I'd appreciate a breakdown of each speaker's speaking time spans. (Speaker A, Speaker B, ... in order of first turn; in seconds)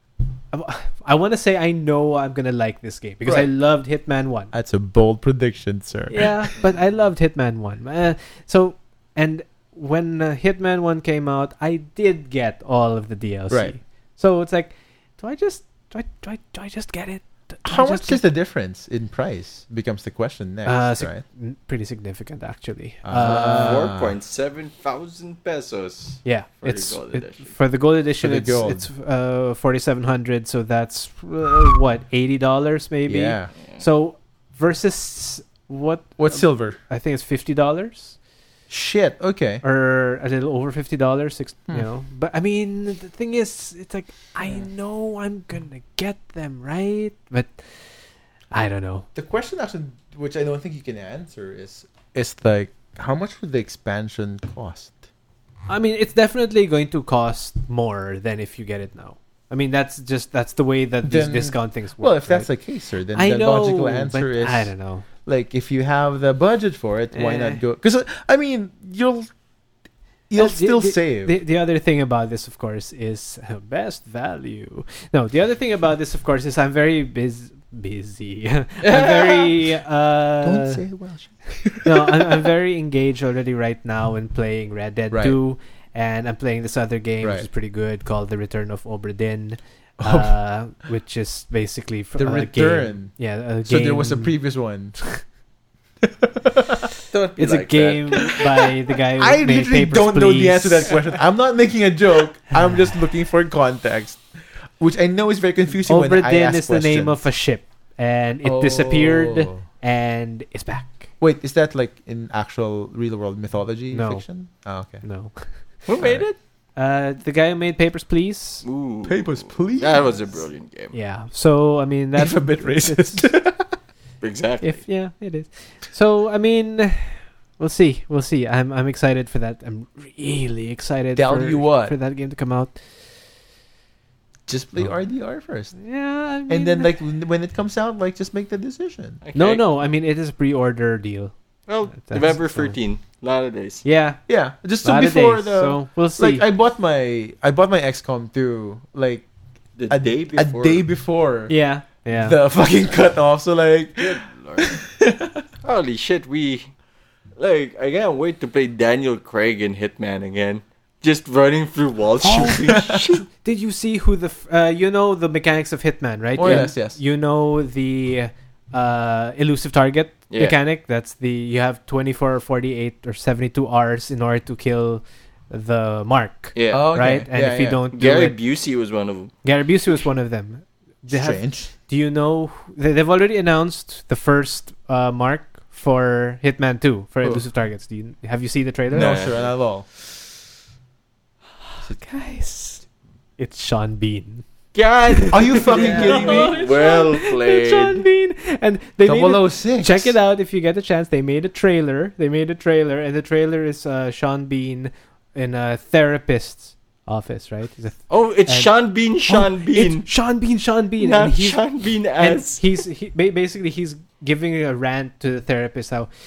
Speaker A: 0.5-4.5, 6.1-18.2, 20.6-23.9, 26.2-38.2, 39.6-47.7, 48.5-49.1, 55.7-62.5, 63.1-65.1, 67.1-67.6, 70.3-80.8, 81.8-94.4, 97.4-101.0, 102.5-102.9, 105.9-111.1, 113.9-114.2, 115.0-115.5, 116.8-118.7, 120.9-123.3, 124.6-132.8, 135.8-136.9, 139.3-141.3, 141.9-142.8, 143.8-144.2, 144.8-146.4, 151.5-152.4, 163.4-178.4, 179.4-189.2, 191.9-192.8, 193.4-194.4, 195.1-208.7, 209.3-211.6, 212.2-216.1
Speaker B: 4.5-6.5, 13.5-13.8, 17.6-21.2, 23.0-24.1, 28.2-28.9, 33.1-33.5, 36.2-36.8, 38.7-39.6, 49.1-55.0, 61.0-64.7, 65.2-69.3, 70.3-71.3, 80.4-82.5, 85.1-85.4, 87.2-87.5, 90.0-90.3, 92.2-93.1, 93.7-95.0, 96.0-96.9, 99.2-104.2, 104.8-107.2, 108.4-109.7, 111.2-115.0, 116.0-116.3, 119.0-120.3, 122.2-123.7, 131.2-131.9, 134.5-135.8, 136.5-139.2, 144.3-149.3, 149.9-151.5, 152.1-155.4, 162.3-163.2, 166.4-167.0, 176.7-177.8, 181.1-181.7, 188.9-189.9, 195.3-196.6, 199.0-200.1
Speaker C: 23.2-27.5, 78.8-79.5, 97.1-98.4, 115.9-116.4, 118.6-120.9, 124.2-124.8, 139.2-139.6, 141.7-143.8, 149.8-150.8, 154.0-154.8, 155.6-156.7, 157.4-163.3, 170.3-170.6, 176.6-176.8, 177.9-179.3, 188.9-189.5, 194.7-198.1, 208.1-210.1, 211.0-212.6